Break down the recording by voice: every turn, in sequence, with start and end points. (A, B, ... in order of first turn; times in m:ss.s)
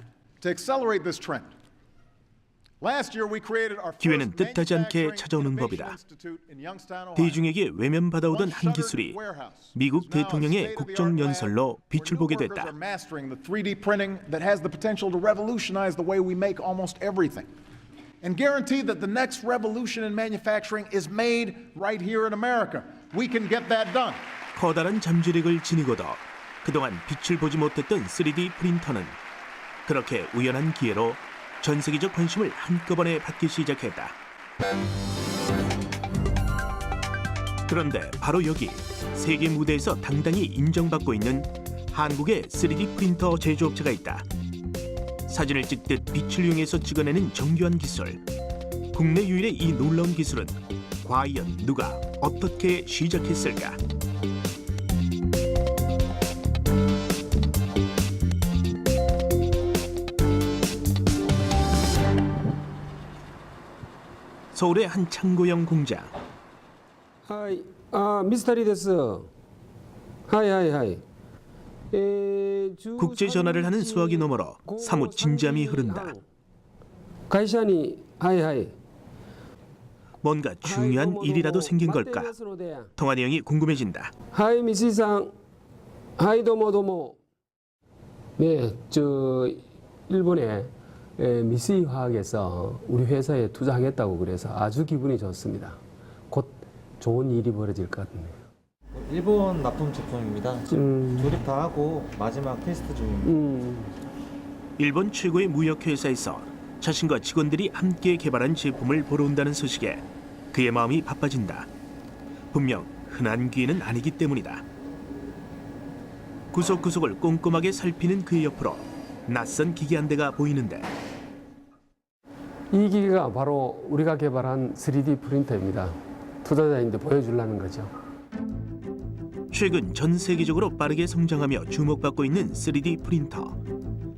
0:00.4-0:01.5 A
0:02.8-0:07.5 A
0:04.0-0:06.0 B
0:07.2-0:09.2 B
0:08.3-0:17.5 A
0:09.7-0:12.7 B
0:18.2-0:24.3 A
0:24.6-0:29.2 B
0:29.9-0:34.2 B
0:37.7-0:44.3 B
0:45.3-0:48.2 B
0:48.9-0:53.8 B
1:04.5-1:06.1 B
1:07.3-1:09.3 C
1:10.3-1:11.0 C
1:11.9-1:16.2 C
1:13.0-1:16.1 B
1:17.3-1:18.8 C
1:20.2-1:22.3 B
1:20.6-1:22.9 C
1:23.0-1:24.1 B
1:24.3-1:25.3 C
1:26.2-1:27.2 C
1:28.4-1:38.5 C
1:38.9-1:43.4 D
1:40.7-1:41.4 C
1:43.2-1:43.9 C
1:44.8-1:51.7 B
1:52.5-1:54.6 B
1:56.5-2:00.9 B
2:02.7-2:07.9 C
2:09.5-2:13.6 B